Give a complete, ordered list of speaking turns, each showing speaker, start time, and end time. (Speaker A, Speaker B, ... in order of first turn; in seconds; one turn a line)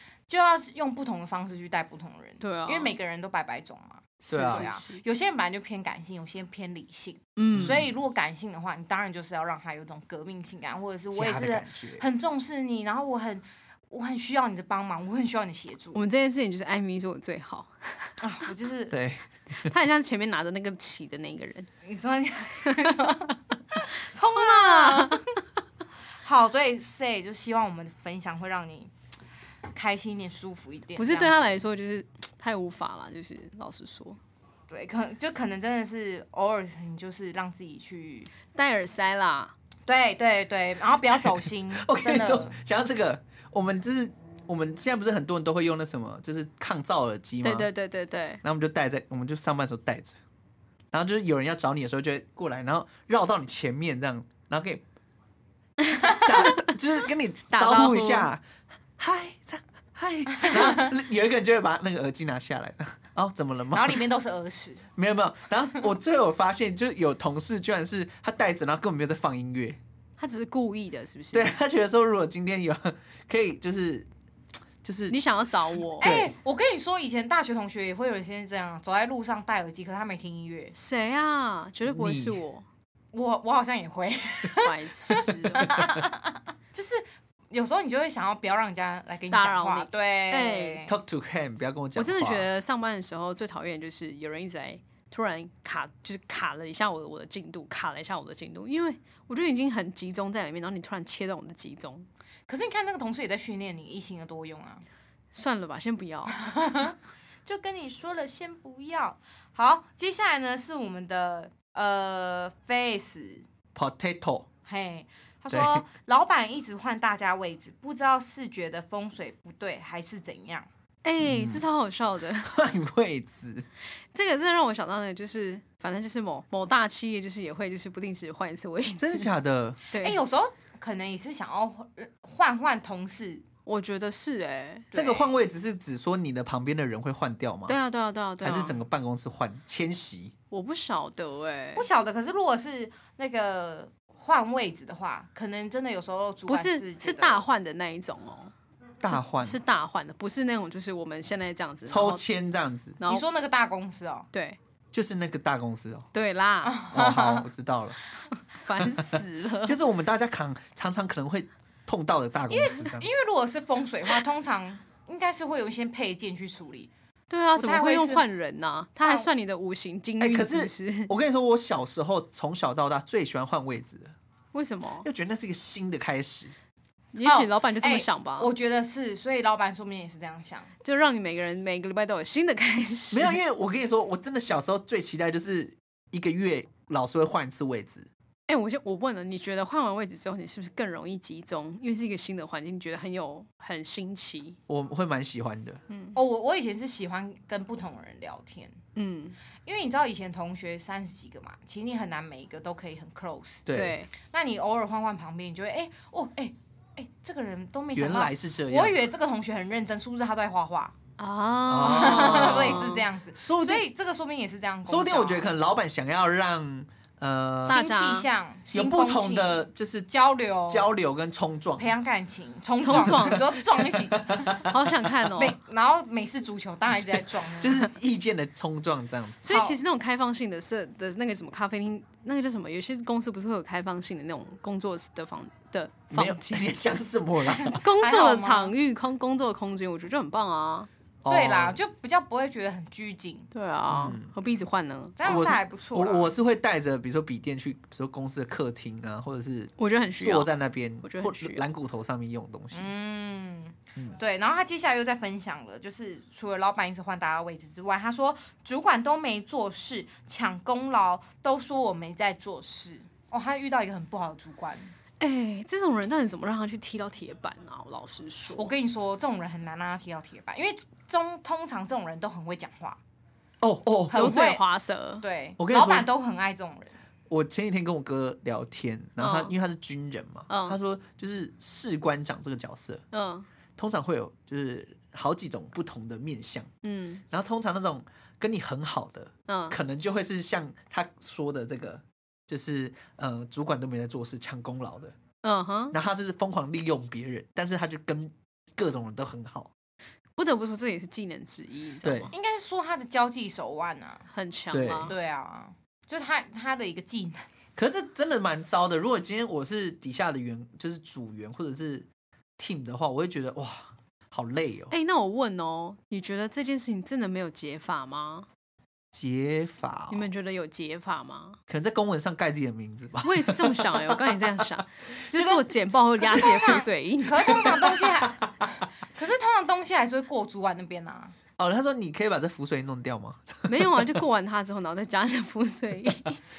Speaker A: 0.3-16.0
Speaker B: 2.4-3.0
Speaker C: 4.2-4.7
Speaker B: 4.3-5.0
Speaker B: 7.4-7.8
Speaker C: 7.5-7.9
Speaker C: 11.1-12.0
Speaker B: 15.9-18.2
Speaker A: 18.2-18.9
Speaker C: 18.9-19.2
Speaker B: 19.6-21.7
Speaker A: 21.8-25.2
Speaker B: 22.6-23.1
Speaker B: 24.2-25.2
Speaker A: 26.2-28.9
Speaker A: 29.7-31.5
Speaker B: 30.9-34.2
Speaker A: 34.7-38.3
Speaker B: 38.5-39.5
Speaker A: 39.9-42.6
Speaker C: 41.8-47.7
Speaker B: 47.4-48.4
Speaker C: 48.4-50.2
Speaker C: 50.9-54.8
Speaker B: 55.9-56.7
Speaker C: 55.9-58.4
Speaker B: 57.5-58.3
Speaker C: 59.0-64.1
Speaker A: 60.4-60.7
Speaker A: 63.7-64.9
Speaker C: 65.0-69.8
Speaker B: 70.2-71.5
Speaker C: 71.3-74.1
Speaker C: 74.8-75.2
Speaker B: 75.1-76.1
Speaker C: 75.8-76.3
Speaker A: 76.0-80.7
Speaker B: 80.7-82.6
Speaker C: 81.8-82.4
Speaker A: 83.1-91.0
Speaker B: 84.6-85.7
Speaker C: 85.6-86.0
Speaker B: 89.3-90.8
Speaker C: 90.8-92.5
Speaker B: 92.0-102.0
Speaker A: 102.5-104.8
Speaker B: 105.3-106.7
Speaker A: 106.3-113.5
Speaker C: 113.7-114.5
Speaker A: 114.7-120.7
Speaker C: 115.5-115.8
Speaker B: 121.0-122.5
Speaker C: 121.2-121.7
Speaker C: 122.4-123.7
Speaker B: 124.1-129.3
Speaker C: 129.0-129.8
Speaker B: 129.9-130.2
Speaker A: 129.9-133.4
Speaker B: 133.7-134.9
Speaker A: 134.9-135.4
Speaker C: 134.9-137.8
Speaker B: 137.7-138.8
Speaker C: 138.4-140.3
Speaker B: 140.5-141.8
Speaker A: 141.7-147.4
Speaker B: 146.5-148.5
Speaker C: 149.0-149.6
Speaker B: 149.0-152.2
Speaker C: 151.9-153.0
Speaker B: 153.0-153.2
Speaker A: 153.1-154.3
Speaker B: 154.3-154.6
Speaker C: 154.9-156.1
Speaker B: 156.1-156.8
Speaker A: 156.6-157.5
Speaker C: 156.9-158.0
Speaker B: 158.6-159.8
Speaker C: 158.8-163.1
Speaker A: 162.5-166.9
Speaker B: 167.3-171.1
Speaker A: 167.6-168.2
Speaker A: 169.0-169.3
Speaker C: 170.2-174.1
Speaker B: 174.5-175.1
Speaker C: 175.0-176.5
Speaker B: 177.1-178.5
Speaker A: 177.2-180.7
Speaker B: 180.8-183.4
Speaker C: 183.1-188.1
Speaker B: 188.5-194.6
Speaker C: 194.7-195.8
Speaker B: 195.9-196.2
Speaker A: 196.1-198.8
Speaker B: 198.9-199.4
Speaker A: 199.6-203.6
Speaker C: 203.7-204.0
Speaker B: 203.7-204.1
Speaker A: 204.2-210.9
Speaker C: 207.9-209.0
Speaker B: 211.2-213.0
Speaker C: 211.7-213.8
Speaker A: 211.8-215.5
Speaker C: 214.8-217.8
Speaker A: 217.6-220.9
Speaker B: 217.7-218.3
Speaker C: 218.7-220.1
Speaker C: 220.7-221.9
Speaker A: 221.8-224.6
Speaker B: 222.8-223.5
Speaker C: 222.9-224.8
Speaker B: 224.6-225.6
Speaker A: 225.3-227.9
Speaker C: 227.0-229.5
Speaker B: 229.4-236.8
Speaker A: 229.5-229.8
Speaker C: 236.1-237.8
Speaker A: 237.6-238.7
Speaker B: 237.7-240.9
Speaker C: 241.2-241.8
Speaker A: 241.3-243.5
Speaker B: 243.5-245.3
Speaker C: 243.9-244.3
Speaker A: 245.2-246.3
Speaker C: 245.2-252.9
Speaker B: 249.8-250.5
Speaker B: 251.0-251.6
Speaker A: 252.7-264.9
Speaker B: 265.2-268.7
Speaker A: 268.5-273.0
Speaker C: 273.6-274.3
Speaker A: 274.1-274.6
Speaker B: 274.1-275.2
Speaker A: 275.2-277.0
Speaker C: 275.6-276.1
Speaker C: 277.3-283.0
Speaker B: 279.2-279.5
Speaker B: 280.5-280.8
Speaker B: 283.1-283.5
Speaker C: 283.8-286.7
Speaker B: 286.8-287.2
Speaker C: 287.3-295.1
Speaker B: 289.5-289.8
Speaker B: 295.4-295.9
Speaker C: 295.9-299.7
Speaker B: 300.4-302.3
Speaker C: 302.0-302.3
Speaker A: 302.3-304.2
Speaker B: 304.3-305.1
Speaker C: 304.7-305.1
Speaker A: 305.1-307.5
Speaker C: 307.8-314.9
Speaker B: 314.9-318.5
Speaker C: 319.1-320.3
Speaker B: 320.1-321.6
Speaker C: 321.7-324.6
Speaker B: 323.2-327.8
Speaker A: 326.2-331.4
Speaker C: 327.5-328.8
Speaker C: 331.6-334.2
Speaker B: 333.7-336.4